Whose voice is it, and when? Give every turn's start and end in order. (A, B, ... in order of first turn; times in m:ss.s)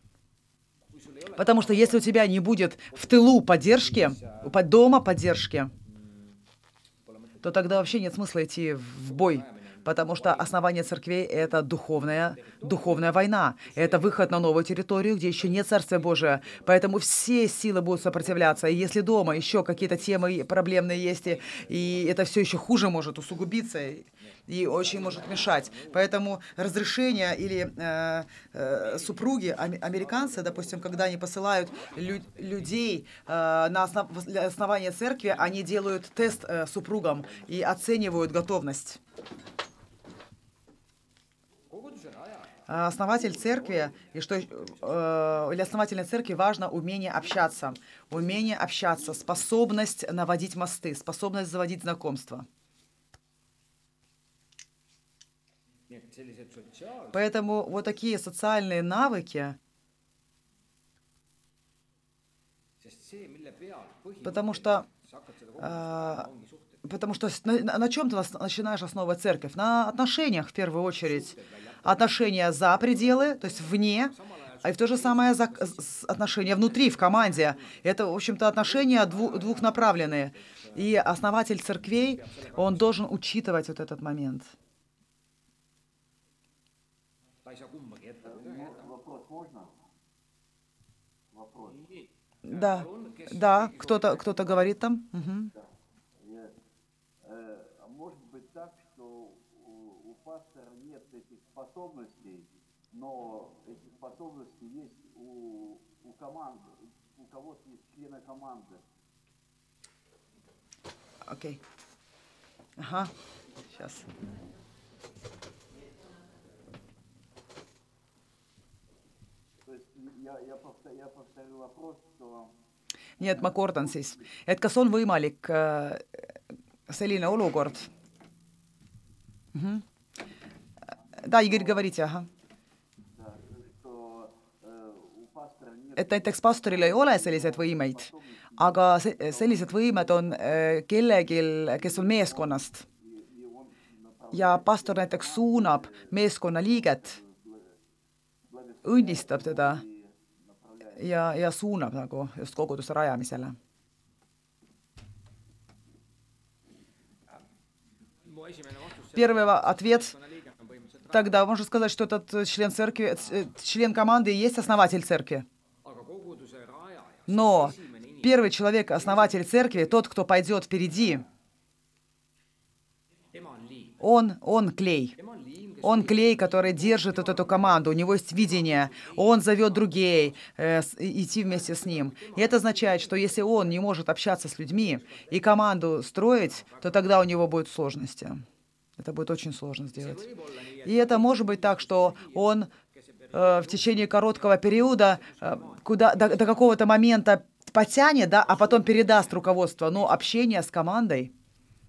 0:00.9-0:02.1 A
0:01.4-0:05.7 B
0:05.9-0:06.4 A
0:07.0-0:07.8 A
0:07.4-0:39.0 B
0:09.1-0:10.5 A
0:12.2-0:13.1 A
0:13.8-0:14.3 A
0:16.0-0:16.7 A
0:18.1-0:22.2 A
0:24.5-0:26.1 A
0:28.8-0:32.7 A
0:41.7-0:42.6 A
0:42.7-0:52.5 B
0:43.1-0:45.0 A
0:55.9-0:57.3 A
0:57.1-0:59.6 B
1:02.8-1:06.9 A
1:04.2-1:04.9 B
1:05.6-1:06.3 B
1:06.8-1:24.5 B
1:11.1-1:12.0 A
1:13.1-1:17.8 A
1:18.6-1:20.9 A
1:22.2-1:22.9 A
1:27.4-1:28.9 A
1:28.3-1:29.8 C
1:31.3-1:31.8 C
1:31.7-1:34.7 A
1:32.4-1:35.5 B
1:36.2-1:36.5 C
1:37.2-1:48.8 C
1:51.2-1:51.6 B
1:52.8-1:53.1 B
1:53.7-1:54.1 B
1:59.6-2:02.5 C
2:03.2-2:06.2 B
2:06.9-2:07.9 B
2:09.5-2:09.8 B
2:11.2-2:12.3 B
2:13.2-2:20.6 C
2:16.0-2:22.8 B
2:21.8-2:26.1 C
2:24.3-2:27.2 B
2:26.9-2:27.8 C
2:28.5-2:31.0 C
2:28.8-2:29.8 B
2:31.0-2:33.6 B
2:38.2-2:41.4 A
2:39.1-2:40.2 B
2:41.1-2:45.5 B
2:45.8-2:48.4 A
2:47.3-2:51.2 B
2:49.0-2:49.3 A
2:53.3-2:54.0 A
2:54.0-2:55.2 B
2:55.2-2:57.9 A
2:55.8-3:08.4 B
2:58.6-3:00.1 A
3:01.5-3:03.8 A
3:05.0-3:05.4 A
3:06.6-3:07.1 A
3:09.0-3:10.3 B
3:10.0-3:16.6 A
3:10.8-3:12.7 B
3:13.3-3:21.3 B
3:18.6-3:19.3 A